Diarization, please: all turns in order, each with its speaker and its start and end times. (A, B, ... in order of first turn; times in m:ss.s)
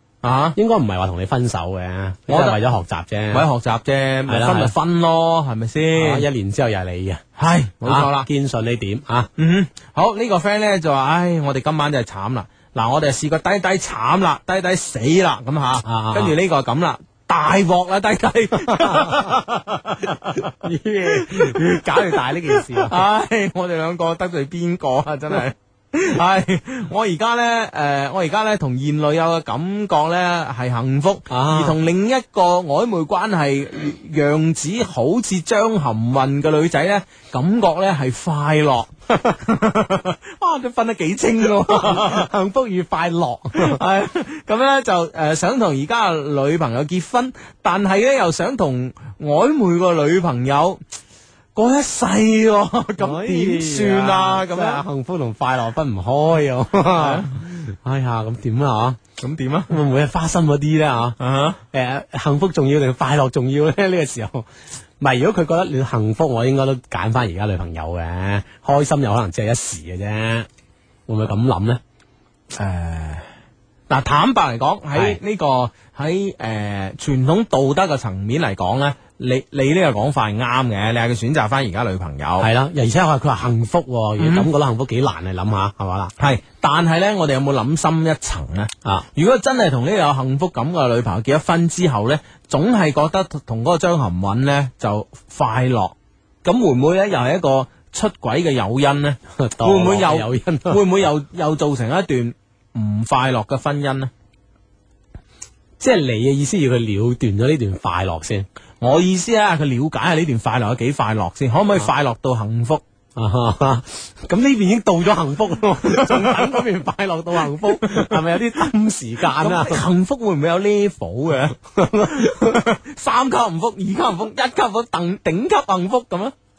0:00.2-0:00.6 A
0:00.6-0:03.4 B
0:02.3-0:02.6 A
0:03.3-0:06.3 A
0:04.3-0:04.7 B
0:06.0-0:07.2 B
0:07.4-0:08.3 A
0:07.8-0:09.3 B
0:09.4-0:42.3 A
0:15.8-0:16.3 B
0:18.6-0:19.3 B
0:20.3-0:23.0 B
0:31.3-0:31.8 B
0:41.7-0:43.8 B
0:43.6-0:50.8 A
0:51.6-0:54.8 A
0:53.0-0:59.0 B
0:56.9-0:57.3 A
0:59.2-0:59.8 A
0:59.7-1:01.2 B
1:01.2-1:01.6 A
1:01.7-1:04.5 B
1:05.0-1:10.5 B
1:11.1-1:11.8 B
1:12.5-1:13.3 A
1:13.9-1:22.5 A
1:14.9-1:15.2 B
1:22.4-1:26.1 B
1:24.2-1:24.5 A
1:26.2-1:44.1 A
1:39.4-1:40.9 B
1:45.8-1:48.5 B
1:48.8-1:52.8 A
1:53.2-1:59.8 B
1:55.9-1:56.5 A
1:57.5-1:58.2 A
1:59.2-2:06.4 A
2:01.7-2:02.6 B